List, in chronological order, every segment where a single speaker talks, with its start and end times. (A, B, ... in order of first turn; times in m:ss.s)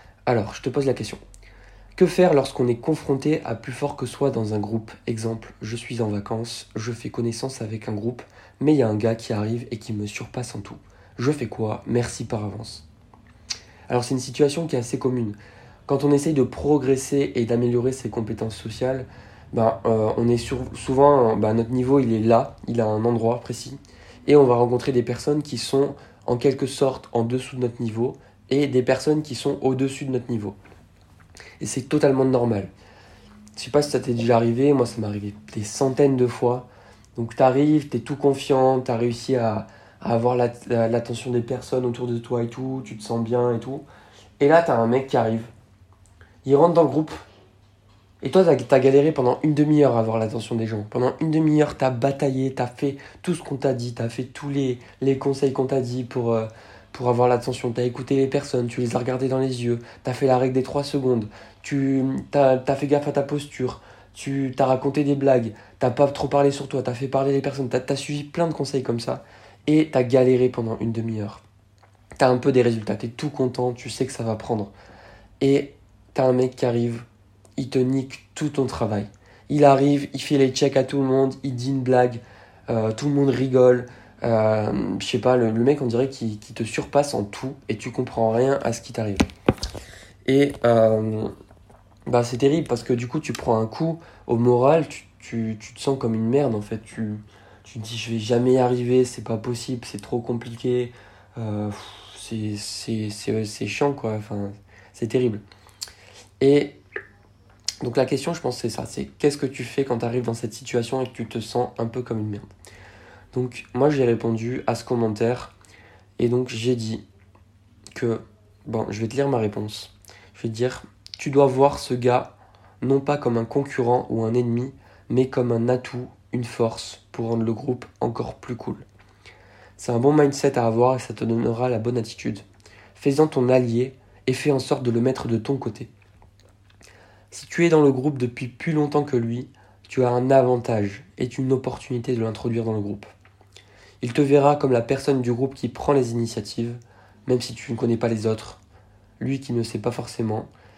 0:00.3-0:01.2 A
0:02.0-0:12.8 A
0:13.9-0:30.6 A
0:31.6-0:32.7 A
0:33.6-0:43.8 A
0:44.4-0:45.5 A
0:46.4-0:47.2 A
0:48.2-1:11.4 A
1:12.2-1:14.7 A
1:15.4-1:17.0 A
1:17.6-1:29.2 A
1:30.2-1:31.3 A
1:32.1-1:45.4 A
1:46.4-1:46.8 A
1:47.8-1:52.5 A
1:53.3-1:55.5 A
1:56.2-1:57.0 A
1:57.9-2:08.8 A
2:09.8-2:12.4 A
2:13.0-2:15.9 A
2:17.3-2:23.1 A
2:24.0-2:28.6 A
2:29.2-2:30.5 A